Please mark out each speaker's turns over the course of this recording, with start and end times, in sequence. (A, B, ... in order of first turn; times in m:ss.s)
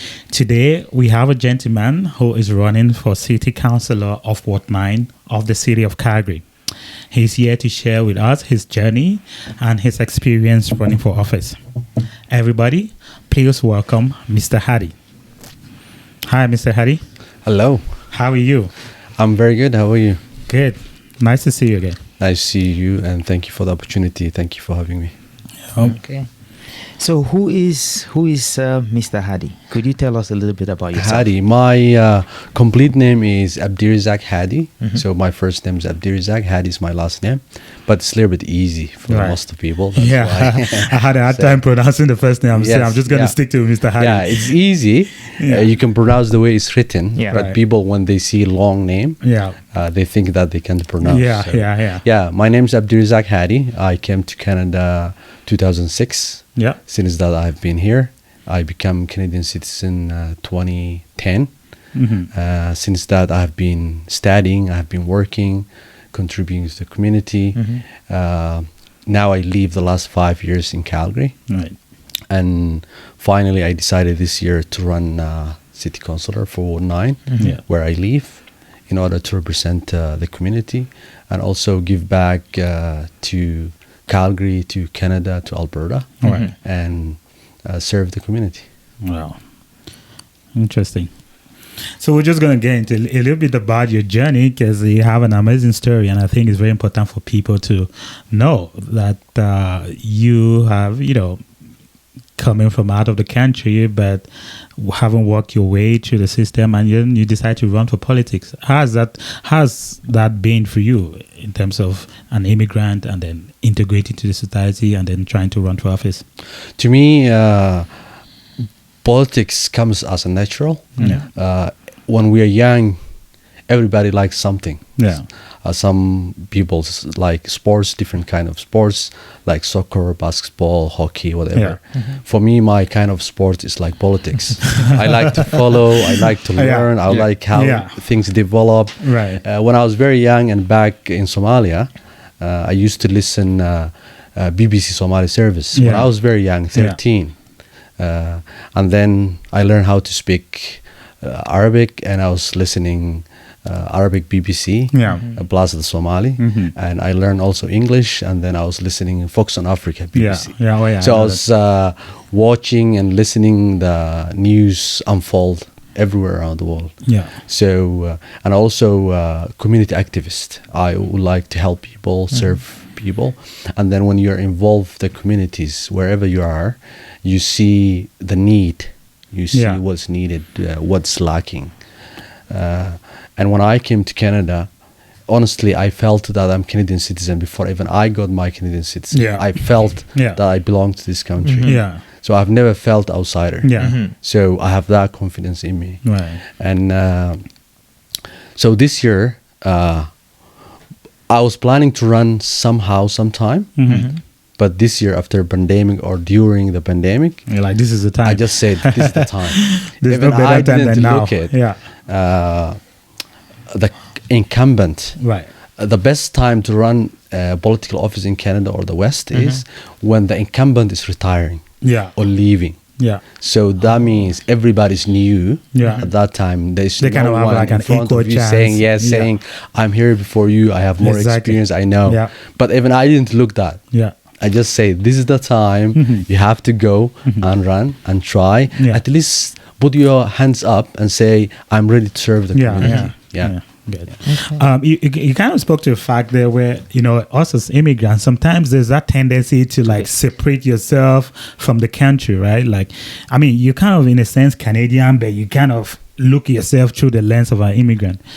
0:00.3-0:06.4 A
0:07.1-0:11.6 A
0:12.3-0:14.9 A
0:16.2-0:17.0 A
0:17.4-0:17.8 B
0:18.1-0:18.7 A
0:19.2-0:20.2 B
0:20.5-0:22.0 A
0:22.2-0:25.1 B
0:25.7-0:26.0 A
0:25.8-0:26.2 C
0:27.0-0:31.3 C
0:30.9-0:41.6 B
0:39.1-0:39.4 A
0:39.9-0:44.6 A
0:42.5-0:43.4 B
0:43.9-0:49.2 B
0:45.3-0:45.7 A
0:47.1-0:47.4 C
0:47.3-0:47.6 A
0:49.2-0:49.6 A
0:49.7-1:01.5 B
0:51.0-0:52.0 A
1:01.9-1:02.3 A
1:02.3-1:11.4 B
1:07.6-1:07.8 C
1:11.5-1:11.8 A
1:12.3-1:28.7 B
1:17.3-1:17.5 C
1:26.2-1:26.5 A
1:26.2-1:26.5 C
1:29.0-1:29.4 A
1:30.6-1:31.1 A
1:32.0-1:41.4 A
1:42.4-1:44.3 A
1:44.8-1:56.2 A
1:56.8-1:57.9 B
1:59.0-2:03.0 B
2:01.0-2:01.2 A
2:03.7-2:05.0 B
2:05.0-2:05.2 A
2:05.6-2:27.3 B
2:16.6-2:17.0 A
2:17.5-2:18.0 A
2:19.0-2:19.4 A
2:25.7-2:26.1 A
2:26.7-2:27.0 A
2:28.0-3:01.7 B
2:34.9-2:35.2 A
2:35.1-2:35.3 C
2:36.4-2:36.7 A
2:40.1-2:41.4 A
2:47.0-2:47.3 A
2:59.5-2:59.8 A
3:02.5-3:04.7 B
3:05.3-3:17.4 B
3:09.1-3:10.4 A
3:11.4-3:11.8 C
3:11.6-3:12.0 A
3:13.6-3:14.0 A
3:13.8-3:14.1 C
3:16.0-3:16.4 A
3:18.6-3:20.1 B
3:21.3-3:23.8 B
3:23.8-3:24.1 A
3:23.8-3:24.2 C
3:24.6-3:27.5 B
3:27.5-3:31.8 A
3:28.2-3:32.8 B
3:33.7-3:35.2 B
3:35.2-3:35.5 A
3:35.8-3:42.8 B
3:39.3-3:39.6 C
3:41.8-3:42.1 A
3:43.4-3:53.8 B
3:45.7-3:46.1 A
3:47.0-3:49.3 A
3:51.0-3:52.3 A
3:54.4-4:03.5 B
3:55.9-3:56.2 A
3:58.7-3:59.0 A
4:02.5-4:18.2 A
4:02.8-4:03.1 C
4:04.2-4:04.6 C